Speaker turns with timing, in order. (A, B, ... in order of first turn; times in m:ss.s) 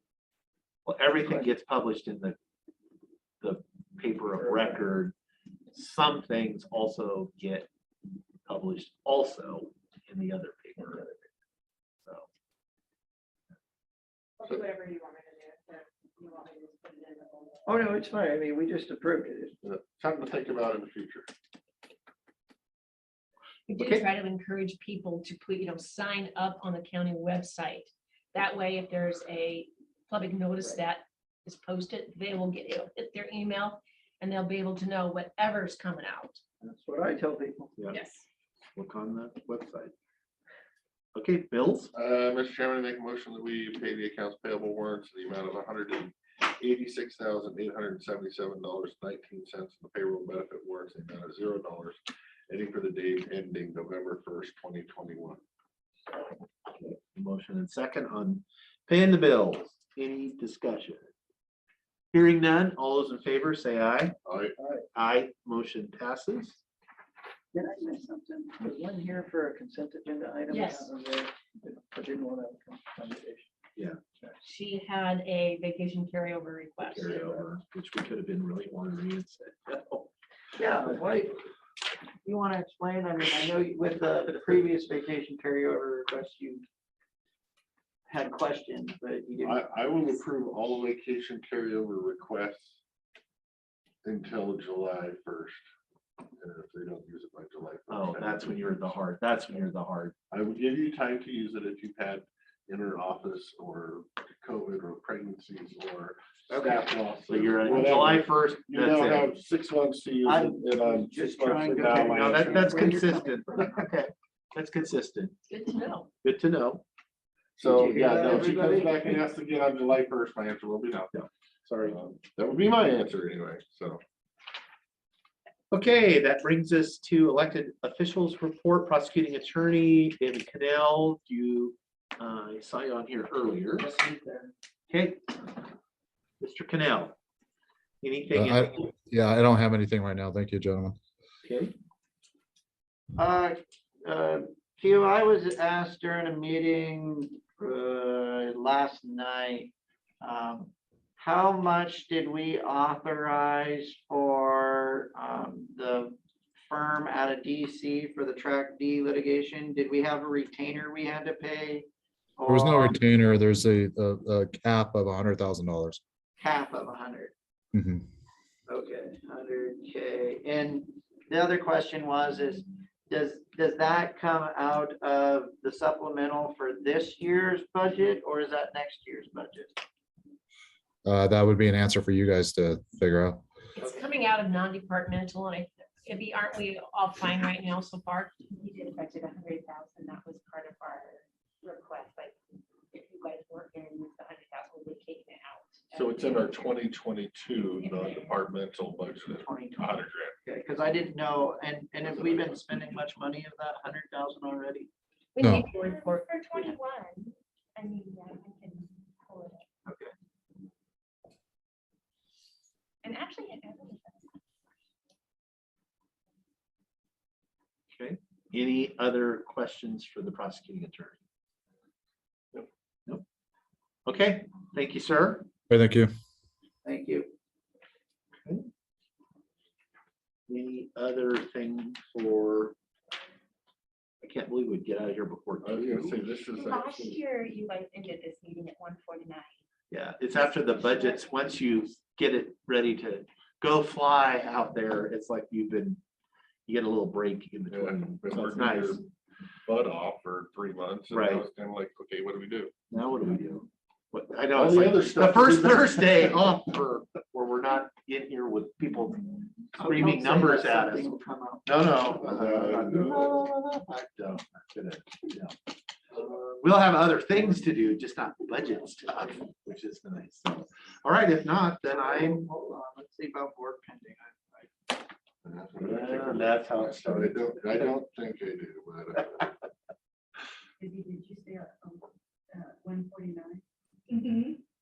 0:00.9-0:02.4 A
0:01.2-0:01.5 B
0:03.4-0:05.2 A
0:04.4-0:04.8 B
0:05.7-0:07.7 A
0:08.5-0:11.0 A
0:14.4-0:17.7 C
0:17.7-0:19.6 B
0:19.6-0:21.3 D
0:23.7-0:36.4 E
0:23.8-0:24.0 A
0:36.6-0:37.8 B
0:37.9-0:38.2 E
0:38.8-0:39.9 A
0:41.2-0:41.9 A
0:41.9-0:55.4 D
0:57.1-1:01.1 A
1:02.1-1:04.2 A
1:04.2-1:04.6 D
1:04.6-1:04.8 B
1:04.9-1:06.6 A
1:07.5-1:13.5 B
1:10.5-1:10.9 E
1:14.4-1:17.4 E
1:16.8-1:20.1 A
1:20.6-1:21.4 B
1:22.2-1:26.6 B
1:28.1-1:29.6 B
1:29.4-1:32.8 D
1:34.0-1:35.6 D
1:36.4-1:39.0 D
1:37.9-1:40.1 A
1:40.3-1:52.8 D
1:47.3-1:49.3 A
1:50.2-1:53.9 B
1:52.1-1:55.4 A
1:55.5-1:56.1 E
1:56.2-1:56.8 A
1:57.6-2:01.1 D
1:57.6-1:59.2 B
2:01.1-2:02.0 A
2:01.9-2:04.0 D
2:05.7-2:13.9 A
2:13.8-2:14.5 B
2:14.9-2:15.3 A
2:16.4-2:17.2 A
2:18.0-2:18.9 A
2:18.4-2:21.0 F
2:21.4-2:21.7 A
2:23.2-2:41.9 B
2:42.4-2:43.0 B
2:42.5-2:46.0 F
2:46.4-2:47.3 B
2:47.7-2:48.0 F
2:48.7-2:59.8 B
3:01.0-3:03.4 F
3:03.8-3:08.3 E
3:08.5-3:12.4 C
3:12.9-3:16.6 C
3:15.9-3:20.4 D
3:17.8-3:18.4 C
3:19.4-3:24.9 B
3:22.0-3:22.6 D
3:25.4-3:29.7 C
3:25.4-3:25.7 F
3:29.9-3:30.1 A
3:33.0-3:34.3 C
3:37.9-3:41.2 A
3:44.1-3:45.5 A
3:45.7-3:46.1 F
3:46.8-3:47.3 B
3:50.5-3:52.8 A
3:54.2-3:56.2 A
3:55.6-3:57.2 D
3:56.5-3:59.5 C
3:59.9-4:06.0 A
4:06.7-4:09.0 A
4:07.7-4:09.1 D
4:09.7-4:12.7 D
4:11.1-4:11.4 A
4:12.9-4:21.1 A
4:14.5-4:16.7 D
4:19.8-4:21.7 B
4:21.7-4:25.6 A
4:22.2-4:23.5 D
4:26.5-4:32.5 A
4:31.9-4:34.7 B
4:35.4-4:39.5 D
4:35.8-4:37.8 A
4:40.8-4:44.6 C